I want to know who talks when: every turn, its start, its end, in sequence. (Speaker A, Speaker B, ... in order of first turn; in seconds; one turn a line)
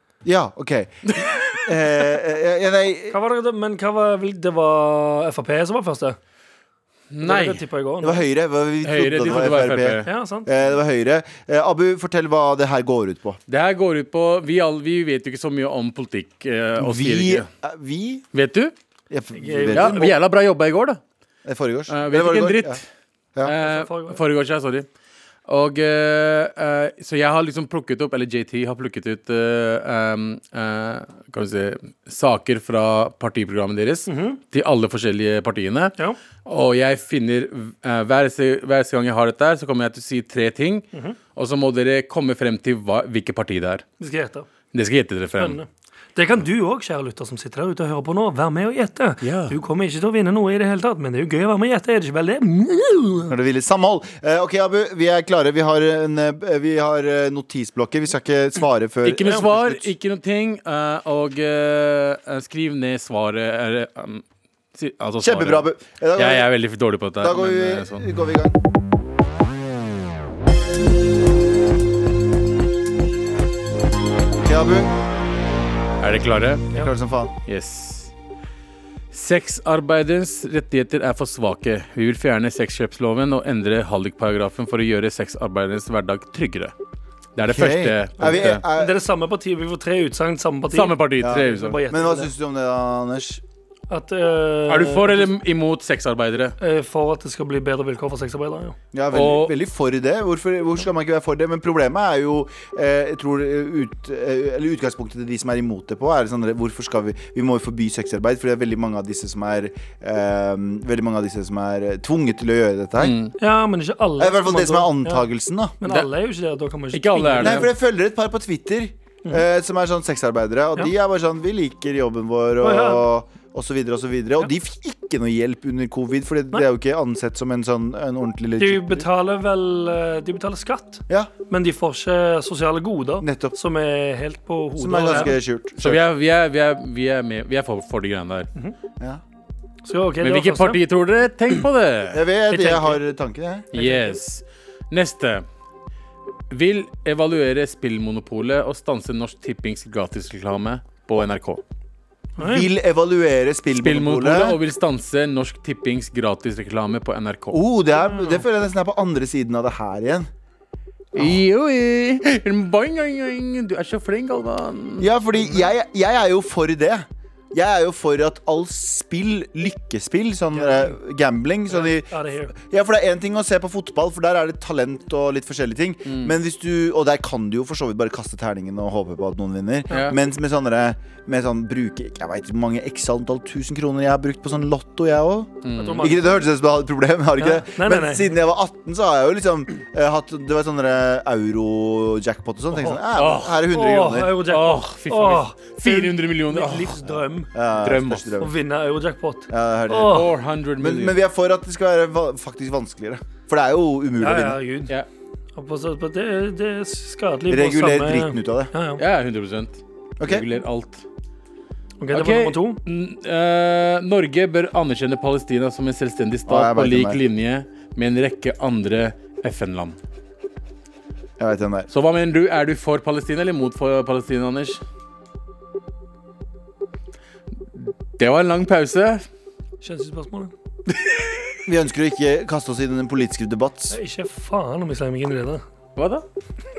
Speaker A: 0.2-3.1
Speaker B: 1.1-1.7
Speaker C: 3.1-6.2
Speaker B: 7.1-7.6
Speaker C: 7.2-8.2
Speaker A: 8.0-13.4
Speaker B: 8.8-10.1
Speaker C: 10.0-10.5
Speaker B: 13.5-17.5
Speaker A: 16.8-18.2
Speaker B: 18.3-18.7
Speaker A: 19.1-20.1
Speaker C: 19.4-20.1
Speaker B: 19.6-21.0
Speaker A: 21.4-22.8
Speaker B: 21.9-22.9
Speaker B: 23.4-24.9
Speaker C: 23.5-24.2
Speaker B: 25.5-43.9
Speaker C: 34.1-34.4
Speaker C: 44.0-44.5
Speaker B: 44.7-45.6
Speaker C: 45.4-53.3
Speaker B: 49.2-49.6
Speaker A: 53.3-59.9
Speaker B: 59.0-64.2
Speaker B: 64.8-68.1
Speaker A: 65.2-66.5
Speaker A: 67.2-68.6
Speaker A: 74.4-74.9
Speaker B: 76.0-76.7
Speaker A: 76.7-77.3
Speaker B: 77.5-78.1
Speaker B: 79.1-86.7
Speaker B: 87.4-88.6
Speaker A: 87.5-89.0
Speaker C: 88.5-92.3
Speaker B: 90.7-91.8
Speaker A: 91.2-93.4
Speaker C: 93.9-95.3
Speaker B: 94.7-96.6
Speaker C: 96.6-98.8
Speaker A: 98.9-113.2
Speaker B: 99.1-99.5
Speaker B: 113.0-113.3
Speaker C: 113.4-115.3
Speaker A: 114.2-115.8
Speaker C: 115.8-117.7
Speaker B: 116.9-117.7
Speaker A: 117.4-129.1
Speaker C: 122.6-123.1
Speaker C: 128.6-135.3
Speaker A: 133.2-133.5
Speaker A: 134.8-136.0
Speaker B: 135.8-138.5
Speaker C: 139.8-140.8
Speaker B: 140.2-142.2
Speaker A: 142.1-143.7
Speaker C: 142.5-143.0
Speaker B: 143.7-145.4
Speaker C: 143.8-144.1
Speaker B: 146.5-151.6
Speaker C: 152.4-152.7
Speaker A: 152.4-154.6
Speaker B: 153.8-157.6
Speaker A: 157.5-160.3
Speaker C: 158.1-158.4
Speaker B: 161.1-165.1
Speaker A: 165.0-194.4
Speaker C: 170.5-171.0
Speaker C: 171.7-172.5
Speaker B: 176.1-176.3
Speaker C: 179.9-180.1
Speaker B: 179.9-180.2
Speaker B: 185.6-186.2
Speaker C: 185.7-186.4
Speaker C: 187.4-188.3
Speaker C: 192.8-193.0
Speaker B: 193.1-193.6
Speaker C: 193.7-197.5
Speaker B: 194.5-196.9
Speaker A: 197.5-198.5
Speaker B: 197.8-198.3
Speaker C: 198.4-200.3
Speaker A: 199.5-204.6
Speaker B: 200.0-201.2
Speaker C: 204.2-204.9
Speaker C: 205.5-209.0
Speaker A: 207.5-208.7
Speaker B: 209.0-211.0
Speaker A: 210.2-210.5
Speaker C: 212.0-212.8
Speaker B: 212.1-220.0
Speaker A: 216.5-217.2
Speaker A: 221.4-221.9
Speaker B: 221.9-224.8
Speaker B: 227.8-229.2
Speaker C: 229.8-230.5
Speaker A: 231.7-234.0
Speaker C: 233.9-235.6
Speaker B: 236.0-236.2